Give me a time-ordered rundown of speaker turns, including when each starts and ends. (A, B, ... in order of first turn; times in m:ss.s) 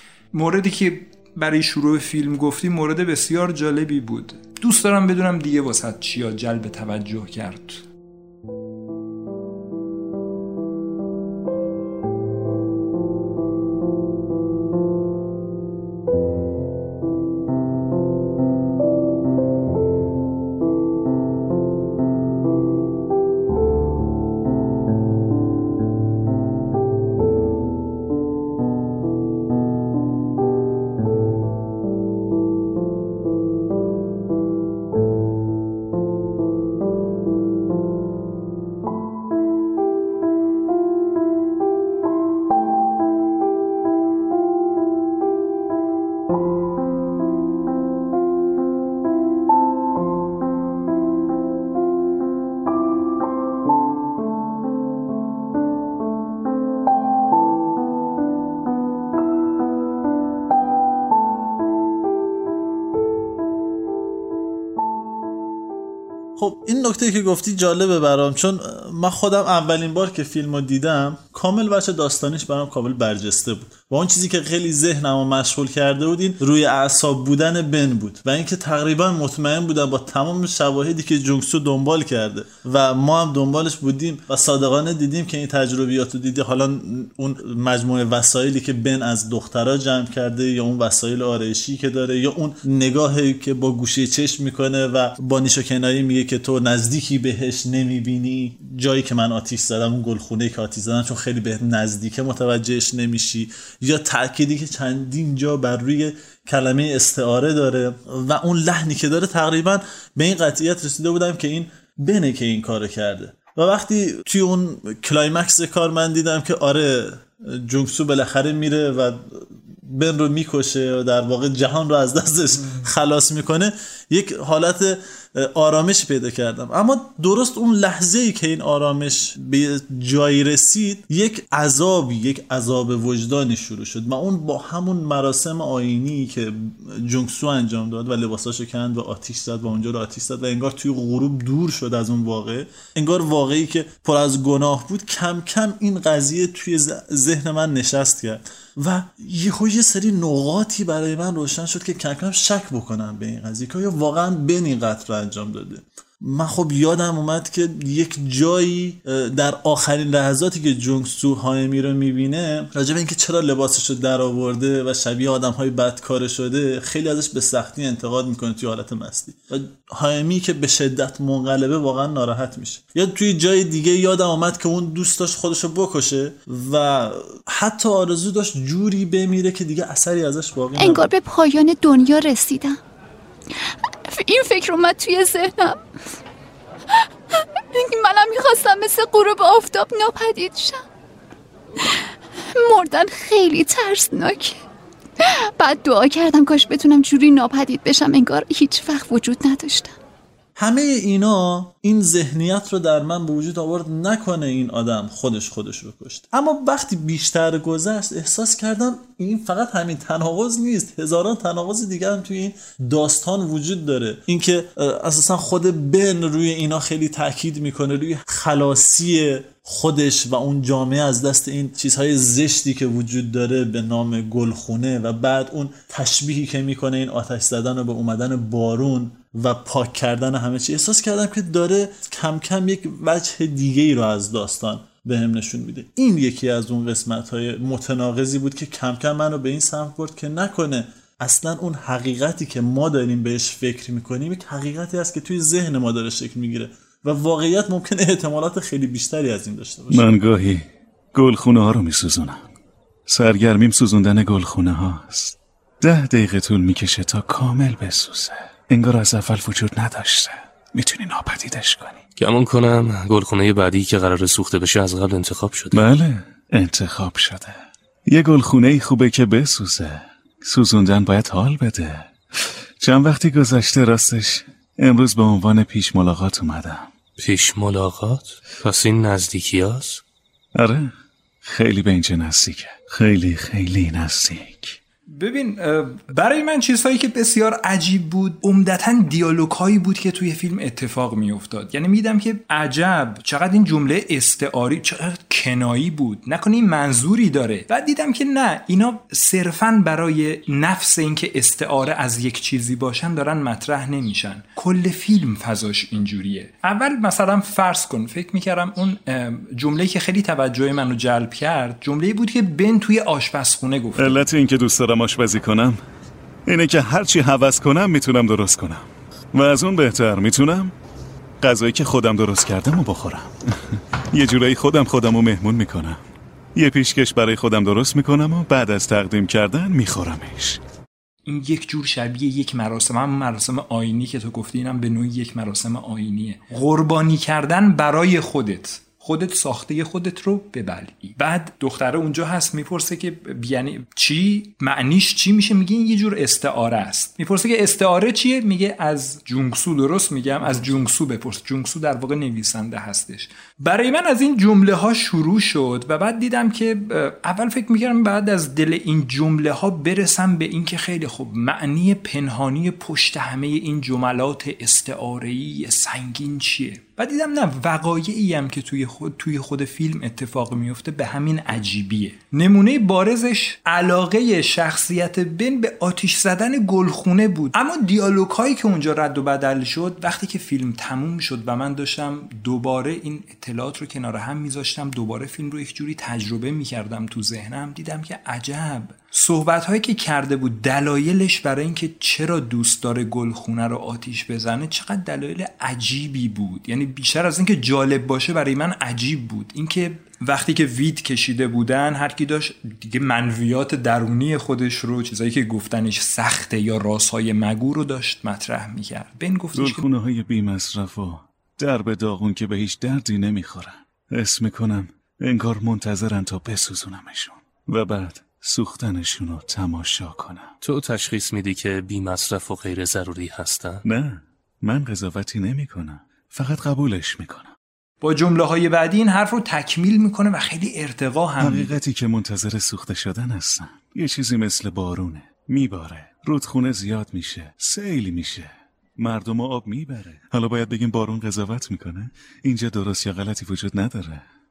0:00.3-0:07.8 A
1:06.4-3:01.1 B
3:00.8-3:02.8 C
3:03.5-3:05.8 C
3:06.9-3:10.8 C
3:11.8-3:14.6 C
3:15.2-3:19.9 C
3:20.6-4:10.1 B
4:09.9-4:12.4 D
4:13.1-4:22.0 D
4:22.2-4:25.8 E
4:25.7-4:36.9 D
4:37.2-4:40.0 E
4:40.5-4:40.9 D
4:41.4-4:44.8 D
4:45.1-5:14.2 A
5:14.0-5:15.8 D
5:16.4-5:20.7 D
5:21.4-5:26.0 D
5:26.5-5:30.6 D
5:31.2-6:49.8 A
6:49.6-7:00.5 D
7:00.6-7:03.8 E
7:03.8-7:07.5 D
7:08.0-7:11.8 A
7:11.4-7:24.2 D